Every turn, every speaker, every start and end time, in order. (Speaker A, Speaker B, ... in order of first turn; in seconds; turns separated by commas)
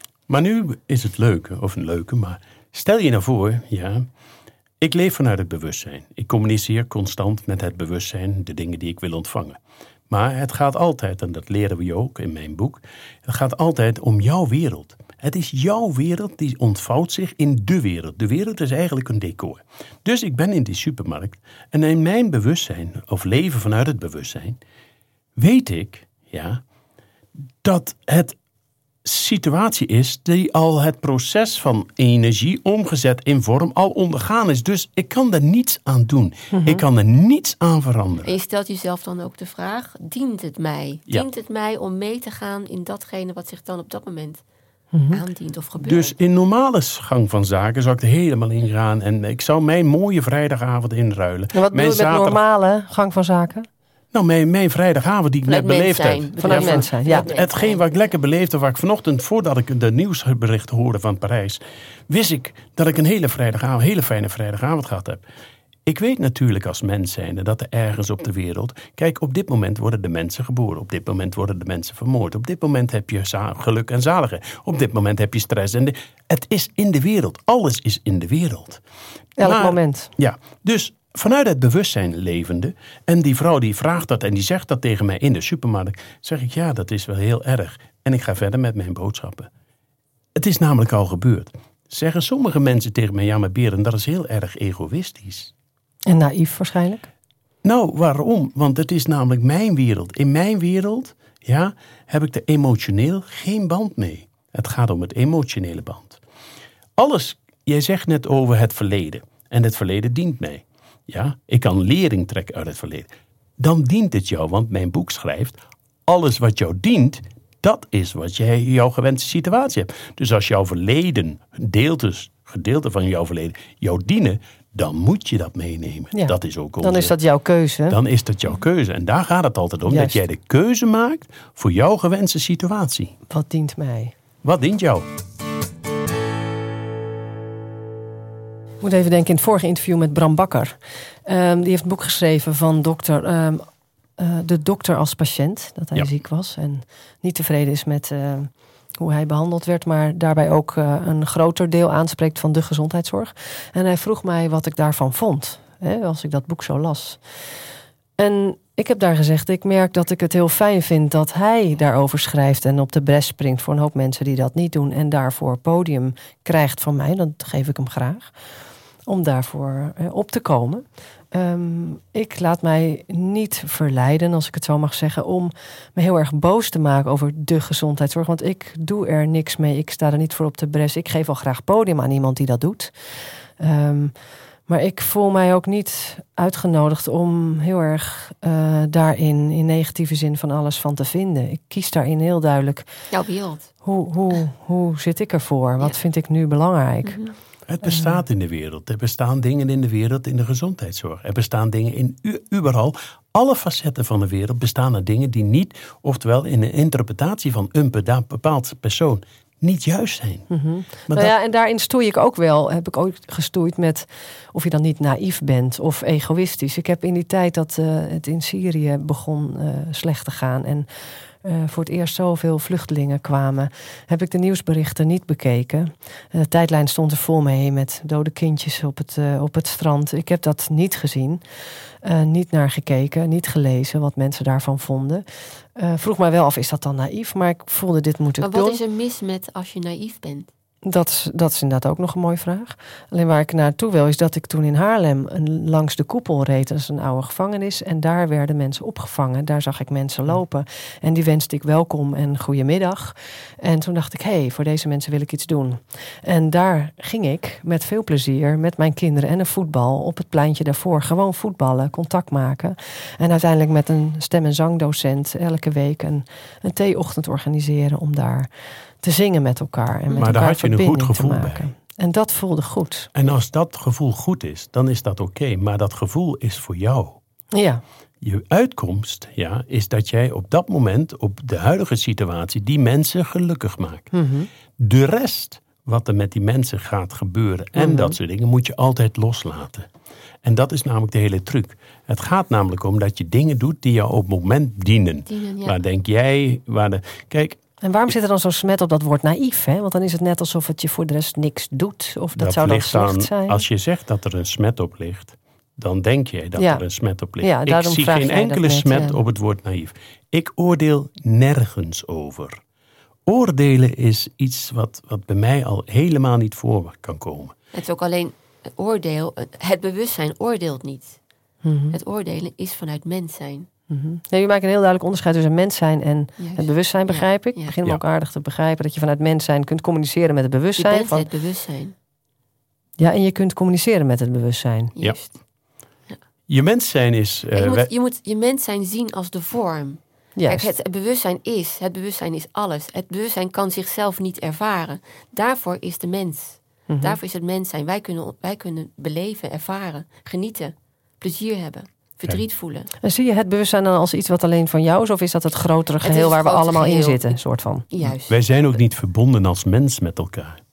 Speaker A: 0.3-4.1, Speaker A: 4.8-9.6, Speaker A: 10.1-24.6, Speaker A: 25.4-26.6, Speaker A: 27.6-28.4, Speaker A: 29.0-38.4, Speaker B: 36.5-36.8, Speaker C: 38.2-44.4, Speaker B: 44.9-45.2, Speaker C: 45.1-46.1, Speaker A: 45.8-52.4, Speaker B: 51.5-53.7, Speaker A: 54.1-65.2, Speaker C: 55.5-57.8, Speaker B: 56.4-57.3, Speaker A: 65.9-78.8, Speaker B: 79.4-80.1, Speaker A: 79.4-89.5, Speaker A: 90.3-95.5, Speaker B: 96.1-97.1, Speaker A: 97.6-106.2, Speaker A: 107.0-127.2, Speaker B: 126.1-128.0, Speaker A: 127.9-133.2, Speaker B: 129.9-130.2, Speaker B: 133.3-134.2, Speaker A: 134.4-135.1, Speaker B: 138.8-157.2, Speaker B: 158.2-168.3, Speaker B: 169.1-184.1, Speaker B: 184.7-192.9, Speaker C: 193.1-193.7, Speaker B: 193.8-197.2, Speaker C: 197.0-197.3, Speaker A: 197.7-210.5, Speaker B: 197.8-198.2, Speaker B: 210.5-220.9, Speaker A: 211.1-211.3, Speaker B: 221.4-231.4, Speaker B: 232.0-235.2, Speaker B: 235.8-238.8, Speaker C: 238.4-240.5, Speaker B: 240.8-268.5, Speaker B: 269.0-273.1, Speaker A: 270.2-271.7, Speaker A: 273.1-277.2, Speaker B: 277.5-277.8, Speaker A: 278.2-284.1, Speaker B: 284.1-284.5, Speaker A: 284.8-289.9, Speaker B: 287.8-288.2, Speaker A: 290.4-297.6, Speaker C: 295.3-295.8, Speaker B: 297.8-303.6, Speaker A: 302.4-312.6, Speaker B: 306.6-306.8, Speaker B: 307.4-309.2, Speaker A: 313.3-317.6, Speaker C: 317.7-321.2, Speaker B: 321.6-322.0, Speaker C: 321.9-323.7, Speaker B: 323.9-331.3, Speaker C: 326.4-327.7, Speaker C: 330.8-331.9, Speaker B: 333.0-334.9, Speaker C: 335.0-335.4, Speaker A: 336.5-337.9, Speaker C: 337.6-352.9, Speaker B: 340.4-340.7, Speaker B: 346.9-347.2, Speaker B: 353.0-357.9, Speaker C: 356.0-357.4, Speaker C: 357.9-358.5, Speaker A: 358.0-360.6